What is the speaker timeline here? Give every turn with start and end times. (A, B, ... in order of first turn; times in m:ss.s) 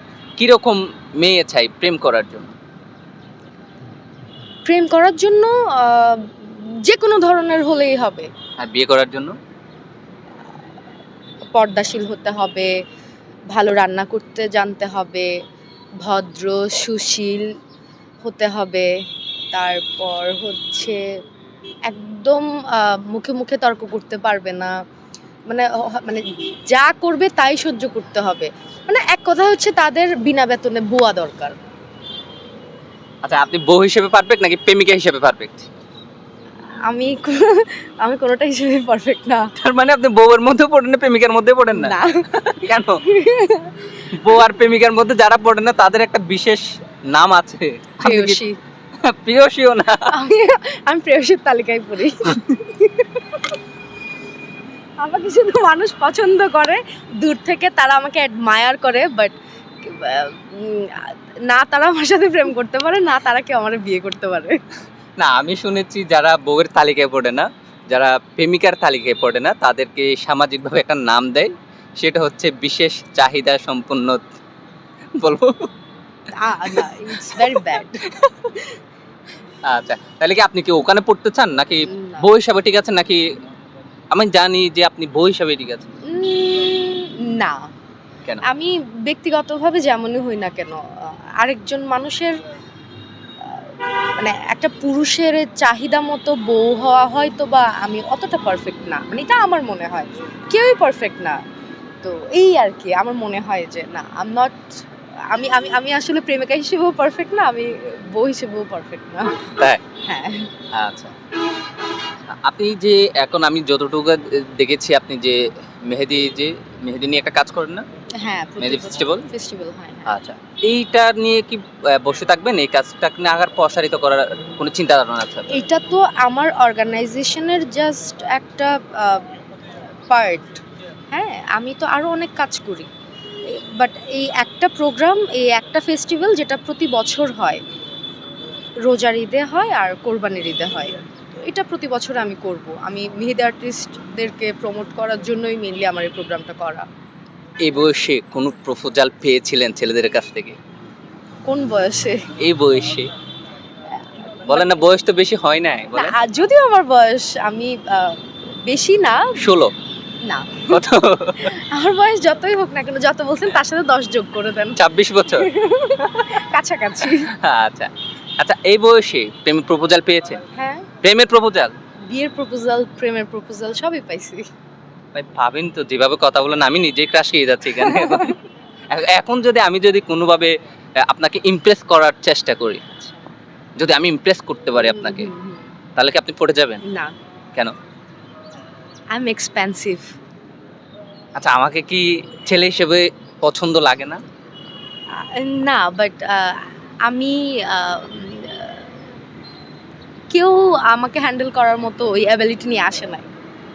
0:00.4-0:02.5 A
0:04.6-0:08.3 B
0:08.6-0:09.4 A
0:11.5-0:12.7 B
0:13.5-0:15.3 B
0:16.0-0:17.5 B
0:18.2-0:18.9 B
0:19.5-0:21.0 B
0:21.9-0:24.7 B
0:25.5-0:31.6 B
0:33.2-0:35.7 A
0:36.8-0:39.5 B
0:39.6-0:43.0 A
0:41.7-0:43.7 B
0:44.1-0:48.4 A
0:48.0-0:48.6 B
0:49.0-0:50.1 A
0:50.1-0:53.5 B
0:55.0-1:04.6 B
1:05.2-1:14.2 A
1:15.2-1:15.7 A
1:16.3-1:18.6 B
1:19.6-1:23.2 A
1:21.9-1:22.2 B
1:24.1-1:25.9 A
1:26.1-1:27.7 B
1:28.4-1:32.4 B
1:33.4-1:41.4 B
1:42.0-1:44.6 B
1:45.3-1:49.5 B
1:50.0-1:50.5 B
1:50.7-1:51.1 A
1:52.4-1:57.8 A
1:58.2-2:00.1 B
1:58.6-1:59.3 A
2:00.1-2:05.5 A
2:05.5-2:09.3 B
2:10.1-2:12.9 B
2:13.5-2:17.6 B
2:18.8-2:26.9 B
2:27.6-2:30.6 A
2:31.4-2:32.2 B
2:32.4-2:33.1 A
2:34.4-2:34.8 B
2:34.5-2:36.1 A
2:35.9-2:39.5 B
2:39.4-2:39.7 A
2:40.2-2:40.8 B
2:40.7-2:41.5 A
2:41.4-2:47.3 B
2:44.8-2:45.5 A
2:47.3-2:50.4 A
2:50.5-2:50.9 B
2:51.0-2:51.7 A
2:52.1-2:54.4 B
2:55.1-2:58.4 A
2:57.8-2:58.3 B
2:58.9-3:02.8 A
3:02.9-3:03.2 B
3:03.8-3:05.3 A
3:04.8-3:05.6 B
3:06.0-3:06.8 A
3:06.9-3:07.1 B
3:09.1-3:10.1 B
3:11.4-3:14.2 A
3:15.2-3:18.9 B
3:20.3-3:23.3 B